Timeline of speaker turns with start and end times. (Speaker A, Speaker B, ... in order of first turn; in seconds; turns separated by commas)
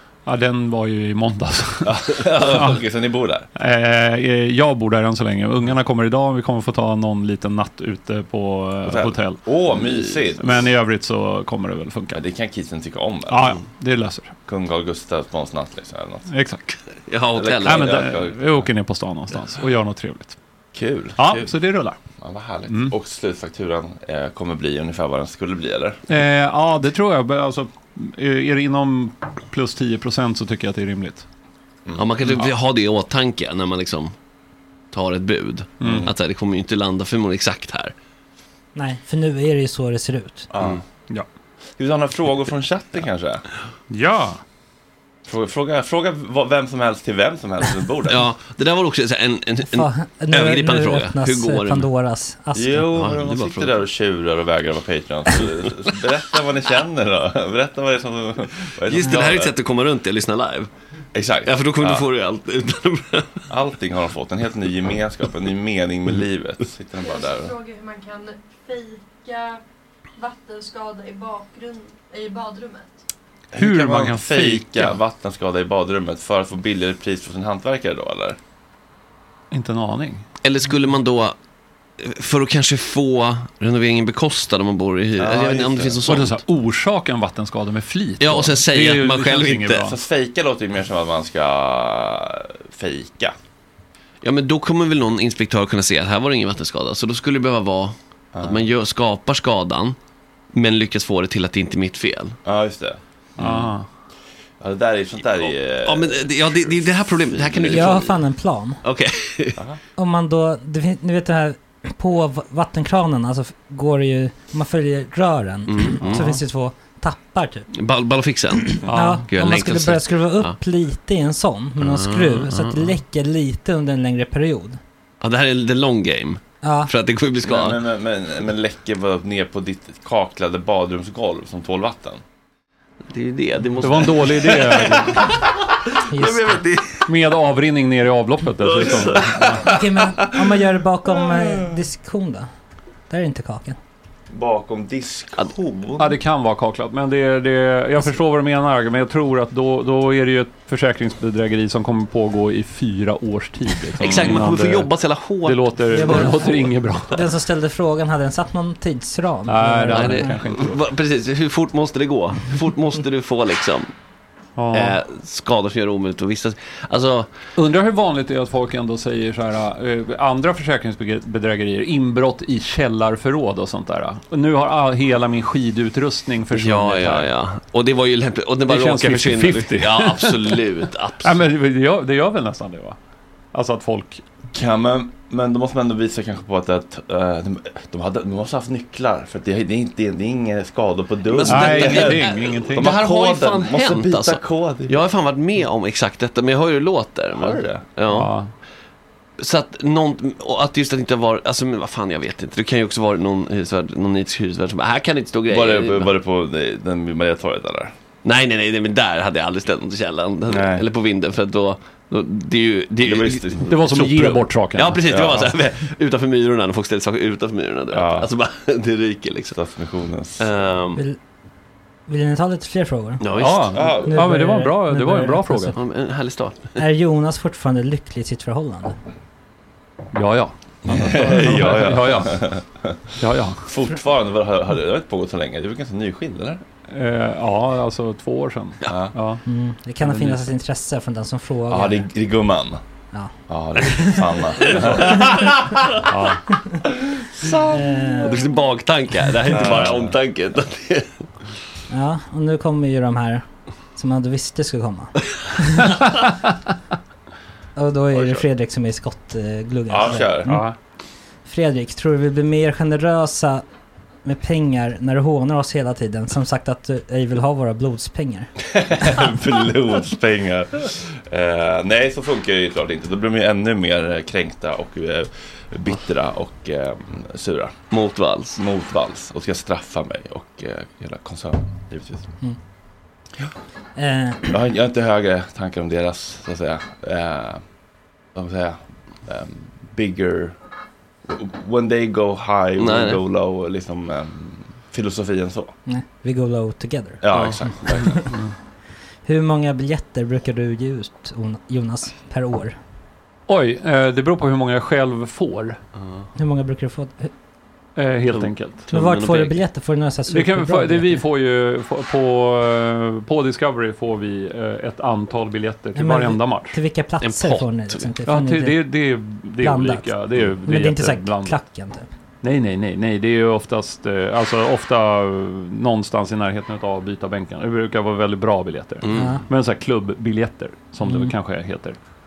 Speaker A: 0.3-2.8, Speaker B: 1.8-3.5, Speaker A: 3.6-9.6, Speaker B: 8.9-10.7, Speaker A: 10.4-12.2, Speaker B: 12.1-13.6, Speaker A: 13.3-14.3, Speaker B: 14.5-16.3, Speaker A: 16.3-16.6, Speaker C: 17.1-17.9, Speaker B: 17.4-18.6, Speaker A: 17.6-20.4, Speaker B: 20.7-21.6, Speaker A: 21.2-21.9, Speaker B: 22.2-26.0, Speaker A: 22.7-22.9, Speaker A: 26.1-31.3, Speaker B: 31.9-32.5, Speaker C: 31.9-34.1, Speaker C: 34.9-37.9, Speaker A: 35.8-36.1, Speaker B: 35.9-36.1, Speaker D: 38.8-40.5, Speaker B: 40.5-40.8, Speaker B: 41.8-43.5, Speaker A: 43.9-44.4, Speaker B: 45.3-48.2, Speaker C: 48.1-51.9, Speaker D: 49.7-52.9, Speaker B: 52.5-59.5, Speaker C: 53.0-53.8, Speaker C: 58.9-60.7, Speaker B: 61.1-62.0, Speaker C: 61.5-63.4, Speaker B: 63.5-67.6, Speaker E: 67.0-69.6, Speaker E: 70.2-72.9, Speaker B: 73.5-78.4, Speaker A: 73.6-75.0, Speaker A: 79.5-80.2, Speaker C: 80.4-81.4, Speaker C: 82.0-86.4, Speaker B: 85.2-86.0, Speaker A: 86.1-89.9, Speaker C: 88.2-89.9, Speaker B: 89.8-93.3, Speaker C: 94.2-100.0, Speaker B: 98.3-98.6, Speaker C: 100.5-102.4, Speaker B: 102.5-103.5, Speaker A: 103.4-103.9, Speaker B: 104.6-108.0, Speaker C: 105.4-108.1, Speaker D: 107.7-108.8, Speaker C: 108.8-109.6, Speaker D: 110.0-117.7, Speaker C: 115.7-116.3, Speaker C: 117.8-120.6, Speaker D: 118.8-124.8, Speaker A: 118.9-119.3, Speaker C: 121.8-123.0, Speaker C: 125.2-127.8, Speaker D: 126.6-126.9, Speaker B: 127.5-132.2, Speaker C: 133.1-135.4, Speaker A: 133.8-135.2, Speaker C: 136.1-137.1, Speaker D: 136.1-136.6, Speaker A: 137.1-139.6, Speaker B: 138.6-139.6, Speaker C: 138.8-139.5, Speaker D: 139.7-142.5, Speaker B: 141.4-141.7, Speaker D: 143.1-143.8, Speaker B: 144.3-146.1, Speaker A: 146.0-157.2, Speaker C: 154.0-156.7, Speaker B: 154.0-154.4, Speaker D: 155.9-160.4, Speaker A: 159.5-160.8, Speaker C: 159.9-163.9, Speaker A: 164.6-165.0, Speaker C: 164.7-167.4, Speaker A: 167.6-177.3, Speaker C: 176.5-181.3, Speaker A: 178.7-180.6, Speaker A: 181.2-183.0, Speaker A: 183.5-184.2, Speaker B: 184.5-195.0, Speaker C: 191.3-198.3, Speaker A: 191.4-193.0, Speaker B: 197.3-197.8, Speaker A: 198.0-198.5, Speaker C: 199.4-206.1, Speaker B: 205.5-207.9, Speaker C: 208.2-219.6, Speaker B: 210.5-210.8, Speaker B: 213.0-214.0, Speaker A: 213.7-215.0, Speaker B: 215.1-215.5, Speaker B: 217.9-218.3, Speaker B: 219.5-220.4, Speaker C: 220.4-221.0, Speaker D: 222.1-225.8, Speaker C: 223.2-224.0, Speaker A: 223.4-225.8, Speaker B: 223.7-224.2, Speaker C: 225.8-226.8, Speaker D: 226.8-229.0, Speaker A: 230.1-232.6, Speaker B: 230.9-233.0, Speaker A: 233.2-233.7, Speaker B: 233.7-236.6, Speaker A: 236.9-239.4, Speaker D: 239.5-242.1, Speaker A: 240.0-240.4, Speaker B: 241.7-242.8, Speaker D: 243.1-244.2, Speaker B: 243.5-245.8, Speaker A: 246.1-246.4, Speaker B: 247.3-248.0, Speaker D: 247.7-248.4, Speaker C: 248.2-251.2, Speaker B: 249.5-250.2, Speaker D: 251.9-255.9, Speaker D: 257.8-260.9, Speaker B: 258.1-258.4, Speaker B: 259.9-260.7, Speaker A: 260.4-260.8, Speaker D: 261.4-263.7, Speaker D: 264.2-268.5, Speaker B: 268.7-277.9, Speaker C: 277.9-278.6, Speaker B: 278.6-282.4, Speaker D: 284.0-284.4, Speaker B: 284.5-287.7, Speaker B: 288.3-290.6, Speaker B: 291.2-295.8, Speaker C: 292.8-293.2, Speaker D: 295.9-298.2, Speaker B: 297.2-298.3, Speaker C: 297.3-297.7, Speaker D: 299.2-302.8, Speaker A: 303.5-305.8, Speaker D: 306.4-307.3, Speaker A: 307.9-308.9, Speaker C: 308.3-309.6, Speaker D: 308.9-311.2, Speaker A: 310.3-316.8, Speaker D: 316.0-318.9, Speaker C: 317.2-318.1, Speaker A: 318.3-321.7, Speaker D: 319.6-322.1, Speaker A: 322.4-332.0, Speaker C: 329.0-329.4, Speaker D: 329.1-329.4, Speaker D: 331.1-331.3